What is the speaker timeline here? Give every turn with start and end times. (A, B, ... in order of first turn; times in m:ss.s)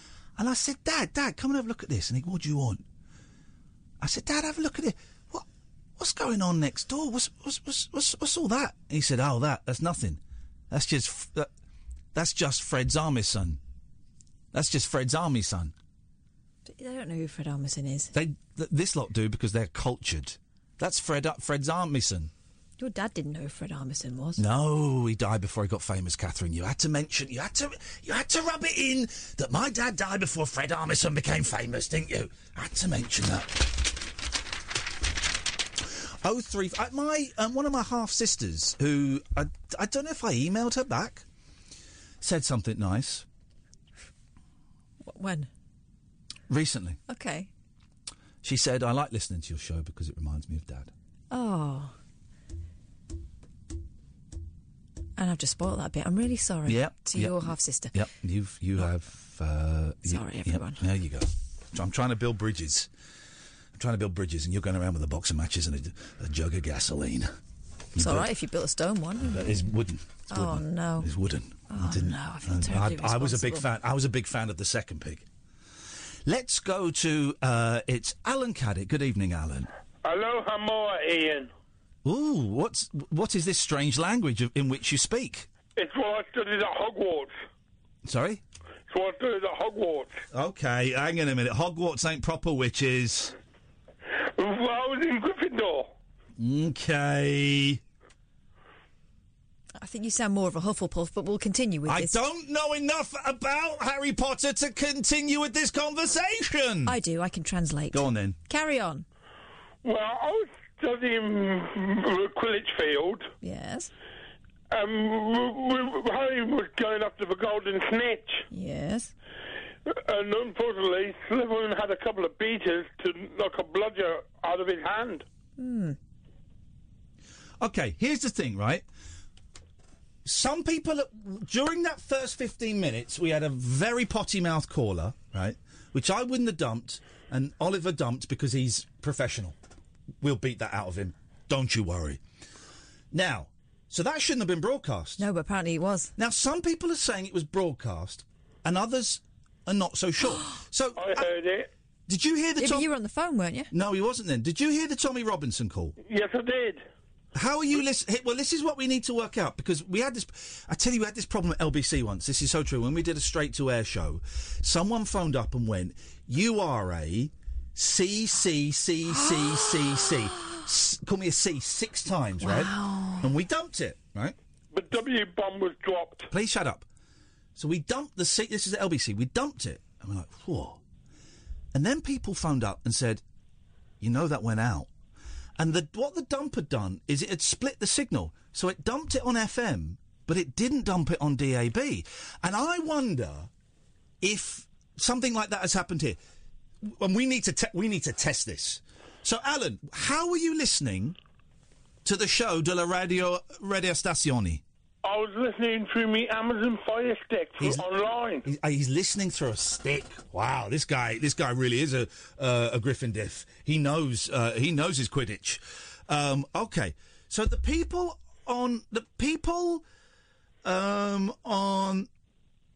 0:00.4-0:02.8 A
0:04.0-0:05.4 A
0:06.0-0:11.5 A
0:12.1-0:13.6 A
0:14.5-0:15.7 A
0:16.6-0:18.1 B
0:18.1-0:22.3 A
0:22.8-0:24.4 B
0:24.4-0:33.8 A
0:36.2-0:41.2 A
0:42.2-0:43.2 A
0:45.0-0:45.5 B
0:46.5-0:47.0 A
0:47.1-0:47.5 B
0:48.4-0:50.9 A
0:51.3-0:52.0 B
0:55.2-0:57.9 B
0:56.6-1:02.9 A
1:00.0-1:00.8 B
1:03.7-1:07.3 A
1:07.9-1:08.3 A
1:08.0-1:09.6 B
1:09.2-1:15.3 A
1:10.3-1:11.1 B
1:11.7-1:13.6 B
1:16.2-1:19.7 A
1:20.0-1:21.5 C
1:22.0-1:25.5 A
1:25.7-1:27.4 C
1:28.0-1:28.4 A
1:28.9-1:30.2 C
1:30.3-1:33.3 A
1:34.2-1:35.9 C
1:36.4-1:37.8 A
1:39.8-1:42.2 B
1:41.8-1:47.0 A
1:46.8-1:49.0 B
1:47.9-1:48.4 A
1:49.8-1:53.3 C
1:53.4-1:53.9 B
1:54.7-1:58.4 C
1:58.5-1:59.1 B
1:59.9-2:05.2 C
2:05.6-2:06.0 B
2:07.6-2:08.8 A
2:10.2-2:19.6 A
2:20.2-2:22.2 A
2:23.1-2:25.2 A
2:25.2-2:26.1 B
2:26.2-2:31.3 A
2:31.0-2:31.7 C
2:32.1-2:32.9 A
2:32.6-2:33.7 B
2:33.7-2:36.0 A
2:36.0-2:36.8 C
2:37.3-2:54.4 A
2:49.1-2:50.5 B
2:52.4-2:53.3 B
2:54.7-2:56.3 C
2:56.3-2:56.8 A
2:57.6-3:00.8 A
3:01.7-3:03.2 A
3:04.0-3:04.9 A
3:05.6-3:13.5 A
3:14.2-3:16.2 A
3:16.8-3:21.2 A
3:22.0-3:24.6 A
3:25.0-3:28.4 C
3:27.6-3:27.9 A
3:28.4-3:39.8 A
3:40.6-3:42.1 A